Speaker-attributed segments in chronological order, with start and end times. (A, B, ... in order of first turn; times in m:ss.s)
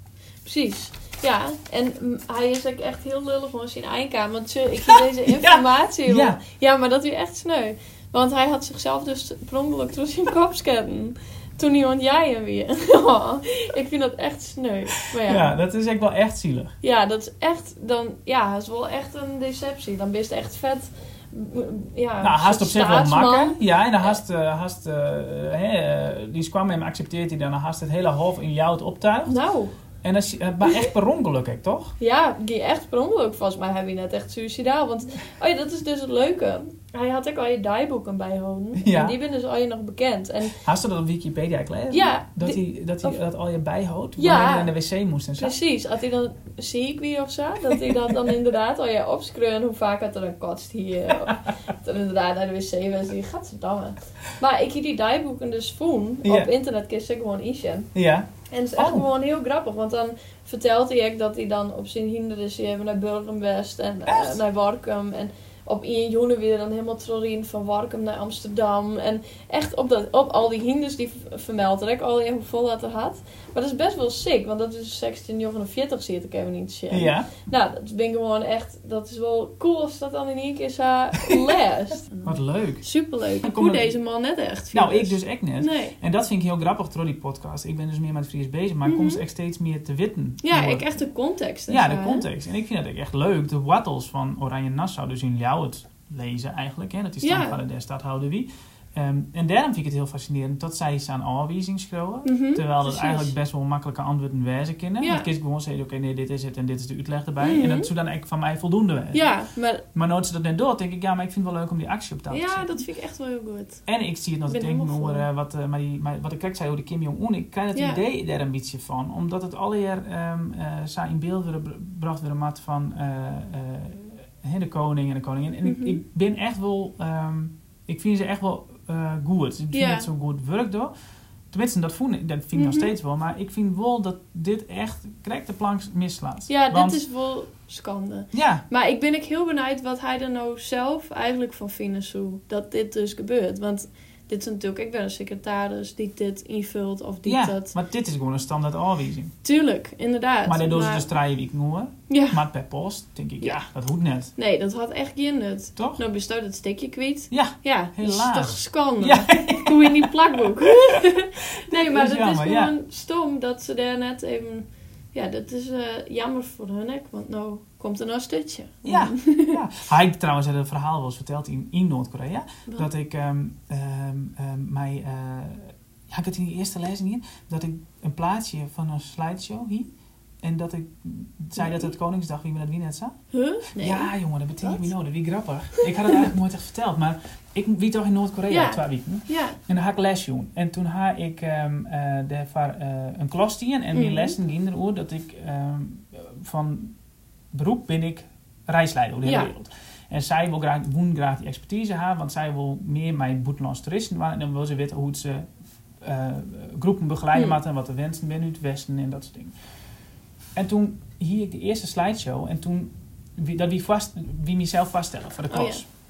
0:00.4-0:15.5 A
0:04.8-0:06.4 B
0:15.2-0:16.7 B
0:16.8-0:24.1 A
0:22.2-0:29.4 B
0:29.2-0:29.7 A
0:30.0-0:31.9 B
0:32.0-0:40.6 A
0:38.8-0:39.2 B
0:40.5-0:45.6 B
0:41.9-0:43.2 A
0:44.2-0:44.7 A
0:45.4-0:57.9 A
0:47.7-0:48.3 B
0:56.2-0:56.5 B
0:57.9-0:59.0 B
0:58.5-1:25.9 A
1:04.1-1:04.4 B
1:16.9-1:17.3 B
1:22.2-1:22.8 B
1:23.4-1:23.9 B
1:24.7-1:30.8 B
1:28.8-1:29.2 A
1:30.4-1:32.2 A
1:31.7-1:49.3 B
1:37.2-1:37.6 A
1:42.2-1:43.3 A
1:45.0-1:45.3 A
1:47.4-1:47.9 A
1:49.1-1:49.8 A
1:49.9-1:52.7 B
1:52.3-1:53.8 A
1:53.8-2:10.9 B
1:54.5-1:55.2 A
1:57.7-1:58.0 A
2:05.6-2:06.0 A
2:09.7-2:10.1 A
2:11.5-2:17.0 B
2:12.5-2:12.9 A
2:16.5-2:27.7 A
2:18.3-2:18.6 B
2:27.2-2:29.3 B
2:29.4-2:31.0 A
2:30.4-2:34.3 B
2:32.1-2:32.4 A
2:34.4-2:49.6 A
2:37.3-2:42.7 B
2:48.8-2:59.9 B
3:00.4-3:03.2 B
3:01.6-3:01.8 A
3:03.3-3:04.9 A
3:03.7-3:16.9 B
3:05.8-3:06.3 A
3:08.5-3:09.6 A
3:13.9-3:14.3 A
3:17.5-3:29.5 B
3:19.2-3:19.5 A
3:30.6-3:35.8 B
3:35.5-3:35.8 A